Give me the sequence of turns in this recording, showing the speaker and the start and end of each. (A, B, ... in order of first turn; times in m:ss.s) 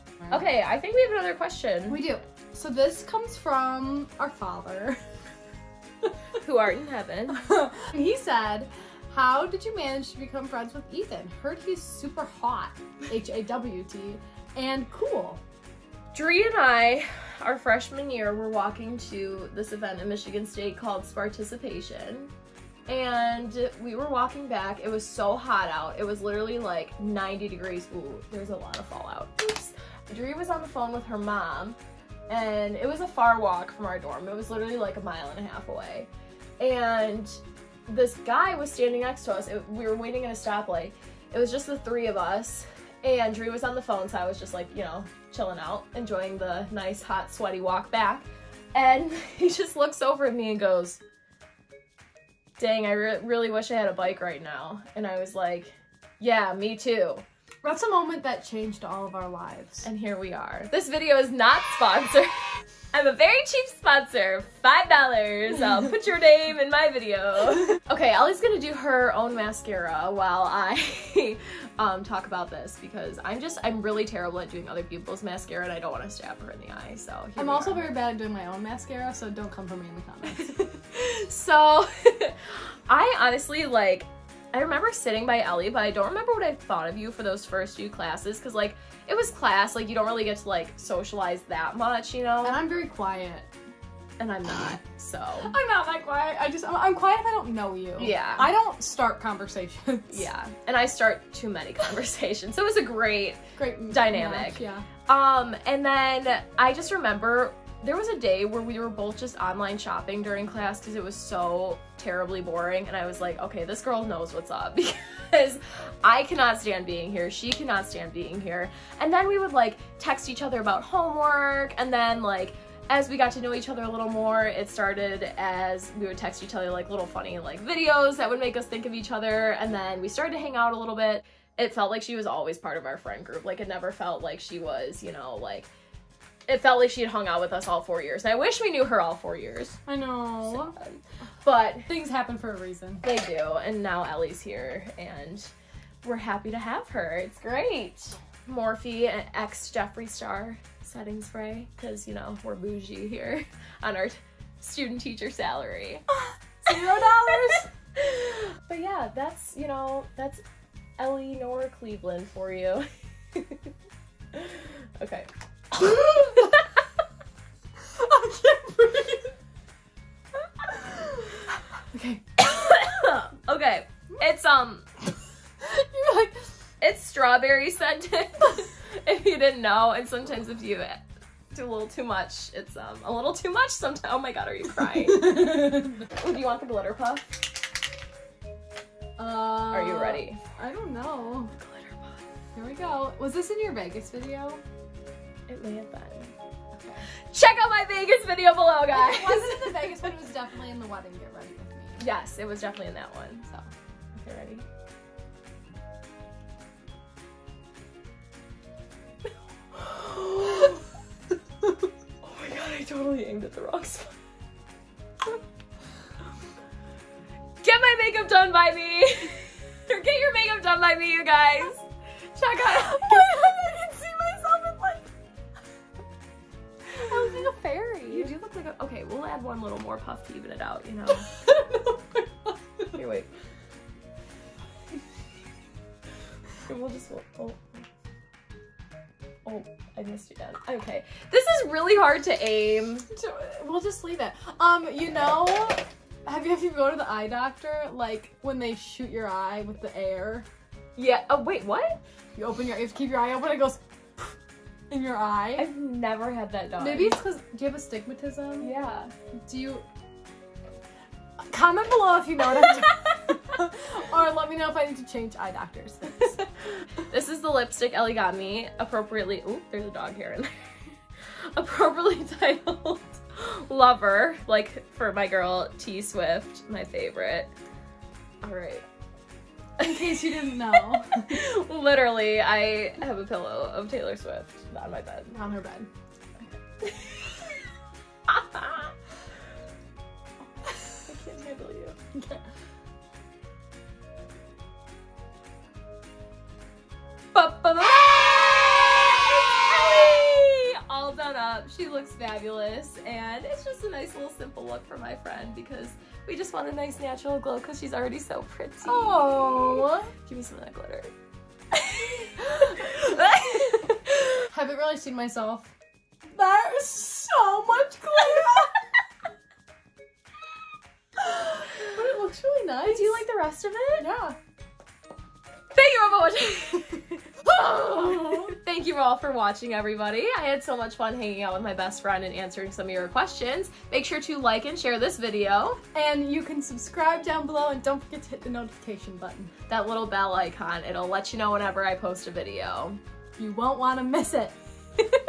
0:00.3-0:02.0 A
0:01.9-0:05.0 B
0:06.4-0:07.5 A
0:07.4-0:15.4 B
0:16.1-0:22.3 A
0:22.9-0:31.8 A
0:32.3-0:36.1 A
0:36.6-0:51.0 A
0:52.6-0:57.2 A
0:57.6-0:59.9 B
0:59.8-1:18.0 A
1:17.4-1:20.6 B
1:20.3-1:32.6 A
1:32.4-1:33.5 B
1:34.2-1:35.5 A
1:35.4-1:40.3 B
1:38.0-1:38.5 A
1:40.1-2:15.7 A
1:43.6-1:44.9 B
2:16.5-2:19.8 A
2:19.9-2:20.8 B
2:20.4-2:21.9 A
2:21.9-2:23.0 B
2:23.0-2:25.5 A
2:26.0-2:36.0 A
2:36.6-2:37.7 B
2:36.7-2:40.4 A
2:41.0-2:43.6 A
2:44.3-2:46.8 A
2:48.0-2:49.4 B
2:51.9-2:52.2 B
2:52.4-2:54.9 A
2:55.6-2:56.5 B
2:56.8-3:01.0 A
3:01.5-3:07.5 A
3:05.2-3:05.9 B
3:09.2-3:11.5 B
3:09.7-3:10.4 A
3:11.5-3:12.2 A
3:12.6-3:14.6 B
3:15.5-3:16.3 A
3:16.7-3:17.0 B
3:17.3-3:20.1 A
3:18.9-3:22.0 B
3:22.0-3:23.6 A
3:24.2-3:24.6 A
3:29.7-3:30.8 A
3:32.2-3:34.2 A
3:37.6-3:45.0 A
3:43.2-3:44.4 B
3:47.0-3:48.3 B
3:48.1-3:51.3 A
3:51.5-3:52.2 B
3:52.9-3:53.3 A
3:56.7-3:57.8 A
3:59.4-4:03.1 A
4:03.1-4:10.5 B
4:11.0-4:12.0 A
4:12.4-4:14.4 B
4:14.9-4:15.7 B
4:15.6-4:17.2 A
4:16.8-4:18.7 B
4:18.6-4:19.1 A
4:19.5-4:19.8 B
4:21.5-4:26.4 B
4:26.9-4:30.5 A
4:31.6-4:37.5 A
4:38.4-4:38.8 A
4:39.8-4:45.4 A
4:39.8-4:41.4 B
4:45.3-4:45.9 B
4:46.4-4:47.3 A
4:48.3-4:48.9 A
4:51.1-4:52.0 A
4:52.2-4:52.4 B
4:57.3-5:11.1 A
5:08.8-5:10.1 B
5:11.7-5:14.4 A
5:14.5-5:15.7 B
5:16.3-5:18.8 B
5:21.2-5:23.2 B
5:22.8-5:24.1 A
5:24.0-5:24.4 B
5:25.7-5:35.8 A
5:35.9-5:39.5 B
5:39.7-5:43.0 A
5:43.4-5:44.6 B